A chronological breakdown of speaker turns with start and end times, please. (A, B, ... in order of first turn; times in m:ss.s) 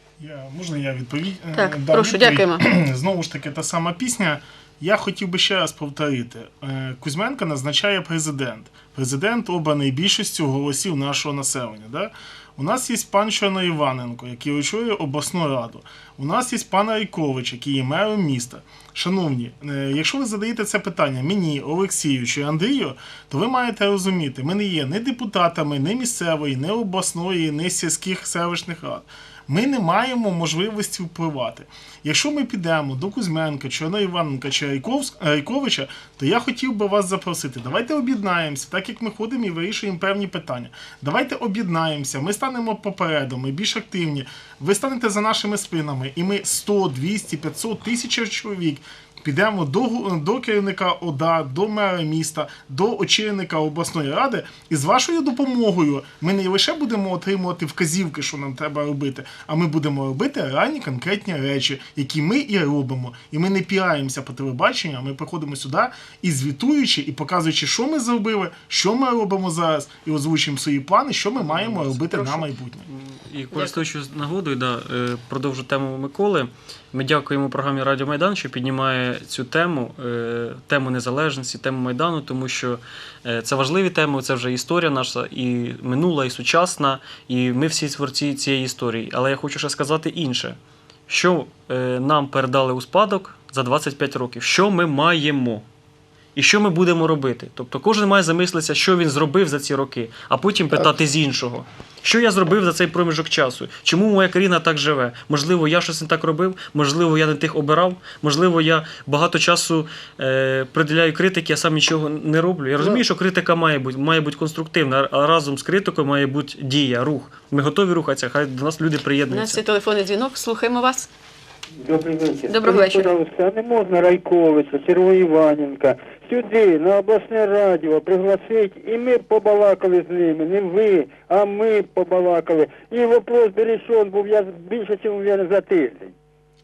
0:00.2-1:12.9 A
0:01.5-0:02.6 B
1:11.4-1:35.7 C
1:36.4-1:59.6 C
1:59.3-2:01.1 B
2:01.8-2:16.2 D
2:02.5-2:03.1 B